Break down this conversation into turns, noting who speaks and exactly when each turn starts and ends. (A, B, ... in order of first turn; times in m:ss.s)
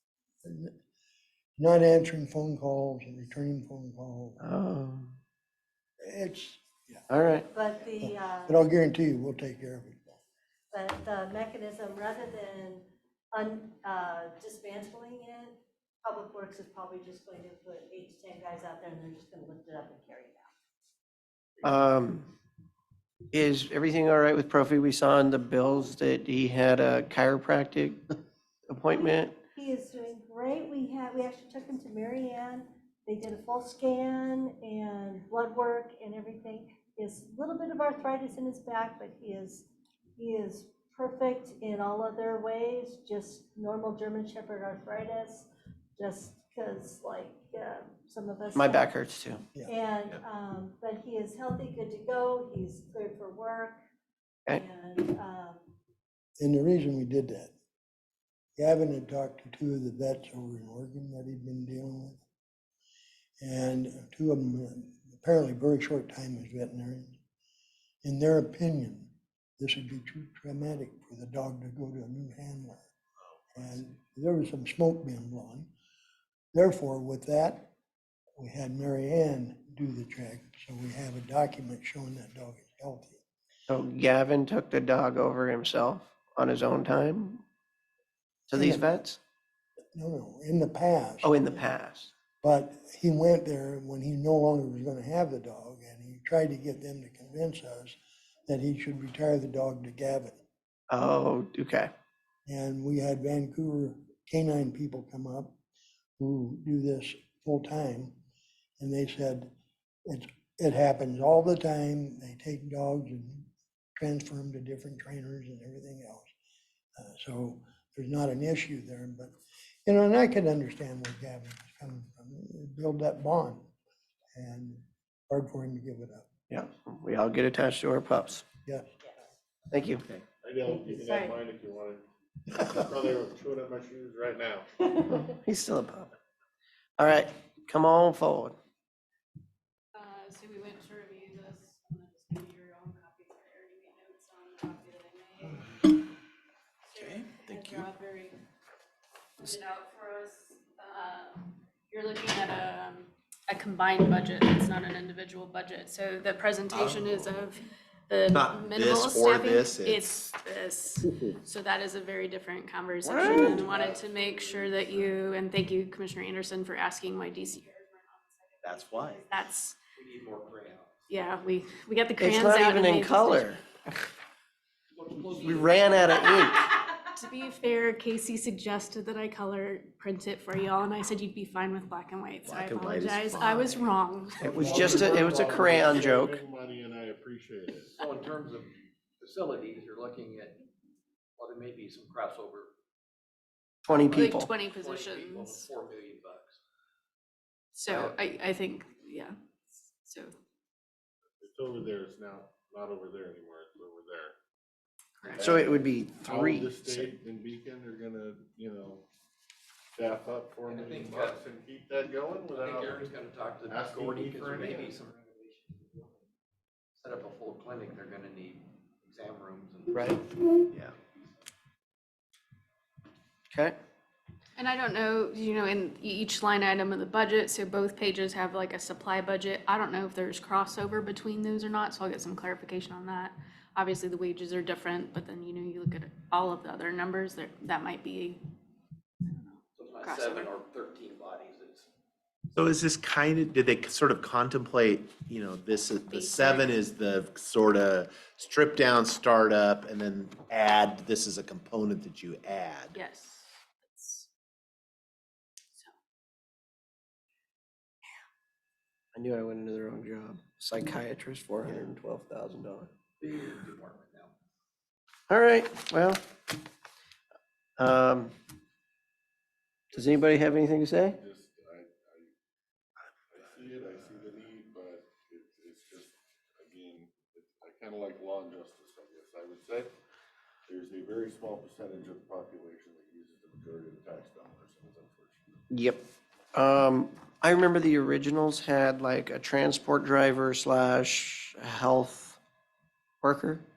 0:00.4-0:00.7 A
0:01.6-0:04.4 A
0:04.4-0:05.2 B
0:06.0-0:07.0 A
0:07.1-0:07.5 B
0:07.5-0:08.7 C
0:08.0-0:10.2 A
0:10.7-0:20.5 C
0:21.6-0:22.3 B
0:23.3-0:28.1 B
0:28.7-0:29.3 B
0:29.4-0:48.9 C
0:48.5-0:49.4 B
0:49.6-0:53.8 C
0:54.5-0:55.7 C
0:56.4-0:57.5 A
0:58.6-1:02.2 A
1:03.4-1:07.2 A
1:08.0-1:12.9 A
1:13.5-1:15.7 A
1:16.5-1:17.7 A
1:18.4-1:23.2 A
1:23.7-1:27.4 B
1:28.5-1:29.2 B
1:28.6-1:28.9 A
1:29.9-1:31.4 A
1:31.2-1:32.1 B
1:32.4-1:40.4 A
1:40.9-1:41.9 B
1:42.5-1:45.6 A
1:46.2-1:48.2 A
1:48.8-1:49.5 A
1:50.1-1:56.3 A
1:57.0-1:59.3 A
1:59.8-2:03.7 A
2:04.3-2:06.3 A
2:06.5-2:08.4 B
2:09.7-2:10.0 B
2:10.4-2:12.0 D
2:10.6-2:11.4 C
2:12.6-2:14.7 D
2:15.0-2:16.1 B
2:17.0-2:18.5 B
2:19.9-2:25.9 E
2:26.9-2:28.4 E
2:27.0-2:27.8 F
2:29.4-2:49.8 E
2:36.7-2:37.3 F
2:38.3-2:40.2 F
2:43.0-2:43.7 B
2:43.1-2:45.2 G
2:48.6-2:49.2 F
2:50.0-2:51.1 G
2:51.1-2:53.6 E
2:52.2-2:54.1 B
2:54.9-2:56.3 G
2:55.3-2:56.7 B
2:57.0-3:04.5 E
3:02.4-3:03.8 F
3:04.4-3:06.4 B
3:04.4-3:08.0 D
3:07.9-3:10.6 G
3:11.4-3:12.7 G
3:13.8-3:14.5 B
3:13.9-3:16.6 G
3:14.1-3:15.7 E
3:17.7-3:20.3 E
3:17.9-3:18.2 G
3:21.4-3:24.3 D
3:25.2-3:25.5 E
3:25.3-3:29.0 D
3:25.4-3:27.1 B
3:30.0-3:33.1 D
3:30.6-3:31.4 G
3:32.4-3:36.1 G
3:33.6-3:34.9 D
3:37.0-3:41.3 G
3:39.9-3:40.2 B
3:43.5-3:43.8 B
3:44.6-3:58.4 E
3:59.2-4:00.6 E
3:59.8-4:01.9 G
4:02.5-4:12.9 F
4:06.1-4:06.8 E
4:12.9-4:14.3 E
4:19.1-4:22.9 B
4:23.2-4:24.3 G
4:25.3-4:26.2 B
4:27.8-4:28.3 B
4:29.9-4:31.2 B
4:30.0-4:30.3 D
4:31.1-4:32.3 D
4:33.3-4:39.9 D
4:40.7-4:45.6 D
4:45.7-4:46.0 B
4:46.5-4:52.4 B
4:53.2-4:53.6 B